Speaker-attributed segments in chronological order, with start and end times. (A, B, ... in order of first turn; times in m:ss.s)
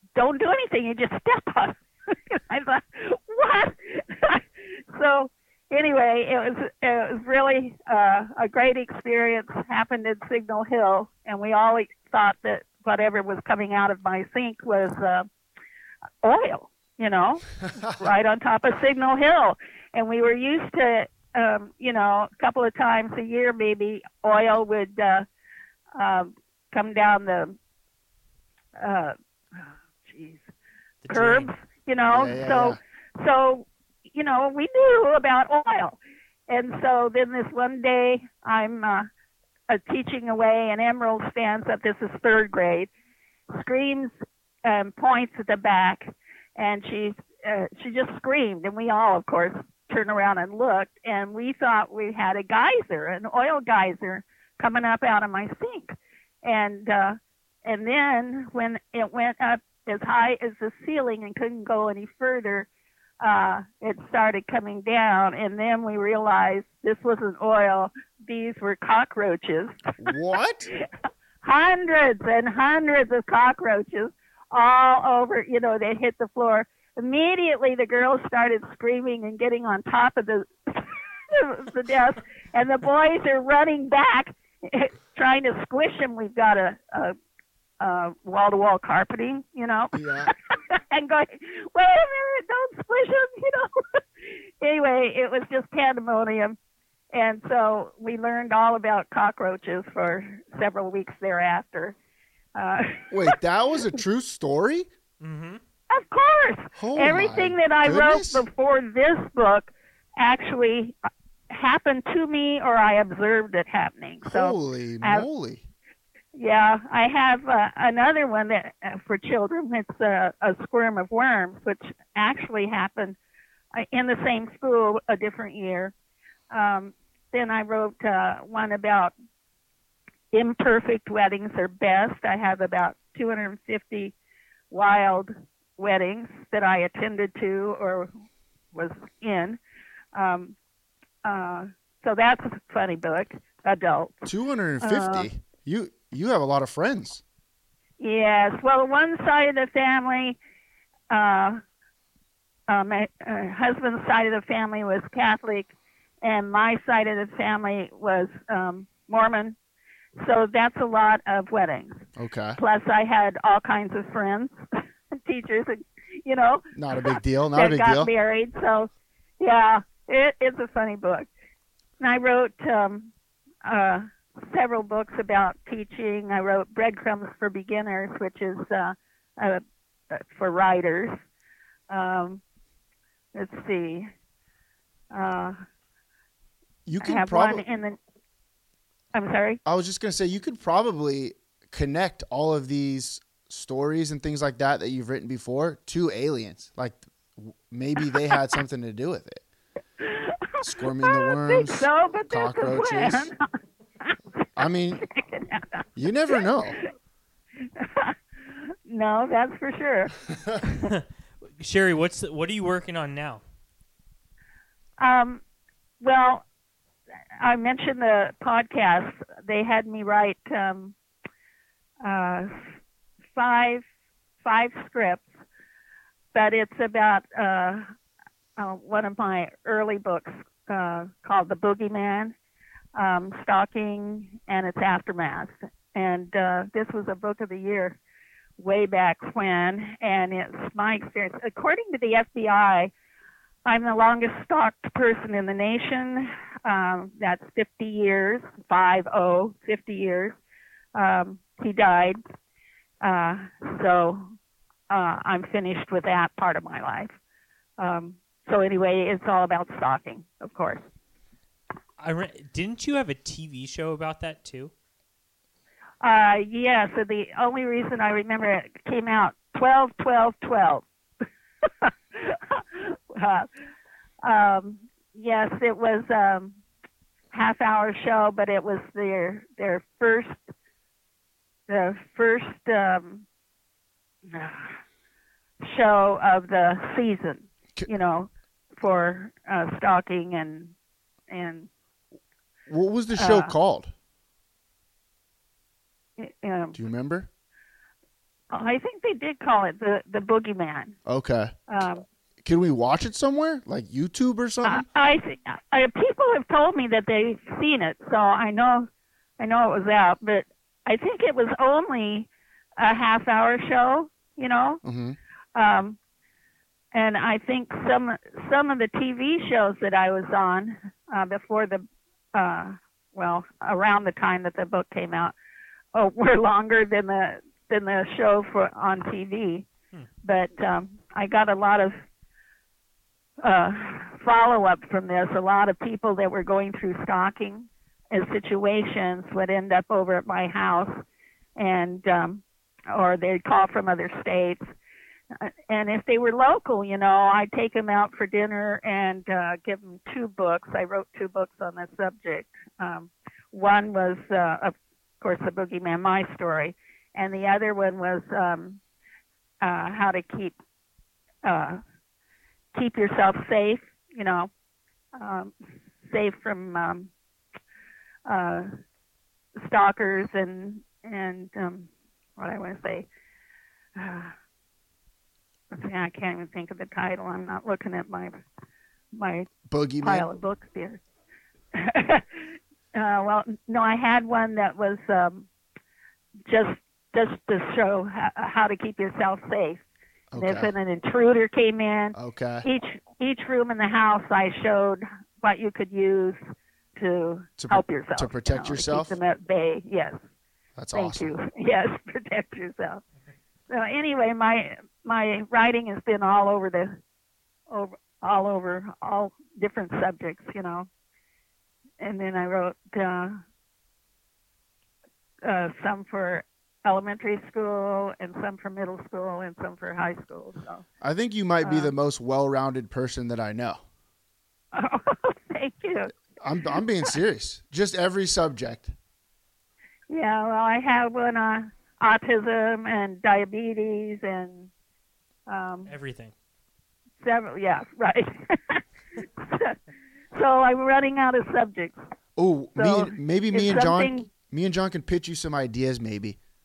0:00.2-0:15.3 A
0:16.2-0:25.3 A
0:26.0-0:27.6 A
0:28.8-0:30.5 A
0:31.0-0:31.5 B
0:31.1-0:39.1 A
0:32.1-0:32.8 C
0:39.7-0:42.9 A
0:43.5-0:44.1 A
0:44.6-1:02.7 A
1:03.2-1:09.8 A
1:10.0-1:10.7 C
1:11.4-1:27.2 A
1:27.8-1:36.6 A
1:29.9-1:30.3 C
1:37.1-1:42.0 A
1:42.6-1:43.3 A
1:43.1-1:44.9 C
1:45.2-1:45.6 B
1:45.9-1:51.0 A
1:46.8-1:48.4 C
1:51.5-1:55.3 A
1:54.2-1:55.6 C
1:56.3-2:03.2 A
2:03.8-2:05.9 A
2:06.5-2:09.1 A
2:10.3-2:14.1 A
2:14.7-2:18.1 A
2:18.7-2:19.6 A
2:20.2-2:20.6 A
2:21.2-2:24.3 A
2:24.3-2:27.2 C
2:24.8-2:25.3 A
2:28.0-2:30.4 A
2:31.1-2:31.6 A
2:32.7-2:39.6 A
2:40.2-2:44.6 A
2:42.2-2:42.6 C
2:45.1-2:46.7 A
2:46.8-2:48.1 C
2:47.5-2:51.3 A
2:52.0-2:53.1 A
2:53.6-3:01.2 A
3:01.9-3:02.4 A
3:03.4-3:04.1 A
3:05.1-3:05.6 A
3:06.9-3:07.6 C
3:07.0-3:08.0 A
3:09.1-3:09.6 A
3:09.7-3:19.4 C
3:20.0-3:23.4 A
3:20.6-3:23.3 C
3:24.0-3:24.5 A
3:24.6-3:25.0 C
3:25.0-3:26.8 A
3:26.0-3:26.8 C
3:27.8-3:30.1 A
3:31.6-3:33.4 B
3:35.0-3:35.4 A
3:36.0-3:36.4 A
3:37.4-3:40.9 A
3:42.0-3:42.5 A
3:43.4-3:43.8 A
3:44.4-3:45.3 A
3:46.3-3:47.9 A
3:48.6-3:52.4 A
3:53.0-3:58.0 A
3:58.6-4:02.9 A
4:03.7-4:10.4 A
4:11.0-4:12.2 A
4:13.0-4:14.3 A
4:14.9-4:17.2 A
4:17.8-4:20.8 A
4:22.0-4:24.7 B
4:26.0-4:30.8 A
4:31.8-4:33.5 A
4:34.2-4:36.6 A
4:37.3-4:40.4 A
4:41.7-4:43.2 A
4:44.3-4:44.8 A
4:45.6-4:50.8 A
4:51.3-4:51.7 A
4:52.7-4:53.9 C
4:53.2-4:53.5 A
4:56.2-4:56.8 A
4:56.8-4:57.3 C
4:58.5-5:01.0 A
5:01.1-5:01.5 C
5:01.7-5:02.0 A
5:02.4-5:04.8 C
5:04.6-5:14.8 A
5:14.8-5:15.2 C
5:15.6-5:16.0 A
5:16.9-5:25.4 A
5:25.9-5:29.7 A
5:30.2-5:32.0 A
5:33.4-5:41.0 A
5:41.6-5:44.7 A
5:45.4-5:58.8 A
5:59.6-6:00.6 A
6:01.4-6:01.8 A
6:02.7-6:04.5 A
6:05.2-6:05.5 A
6:06.1-6:07.1 A
6:08.3-6:08.7 A
6:09.6-6:13.1 A
6:14.0-6:14.3 A
6:15.7-6:18.4 A
6:19.2-6:19.5 A
6:19.7-6:20.3 C
6:20.0-6:21.0 A
6:21.7-6:25.5 A
6:26.5-6:29.8 A
6:30.3-6:30.7 C
6:30.4-6:36.4 A
6:32.1-6:32.7 C
6:37.0-6:40.2 A
6:37.6-6:39.2 C
6:40.8-6:41.4 C
6:40.9-6:43.0 A
6:43.7-6:47.0 A
6:47.7-6:50.9 A
6:52.0-6:53.4 A
6:55.4-7:00.8 A
7:01.0-7:03.8 C
7:01.6-7:01.9 A
7:04.7-7:06.1 A
7:06.4-7:08.9 C
7:10.1-7:14.7 A
7:15.5-7:15.9 A
7:15.9-7:16.3 B
7:17.2-7:19.8 A
7:20.3-7:22.0 A
7:22.4-7:26.4 C
7:22.8-7:24.3 A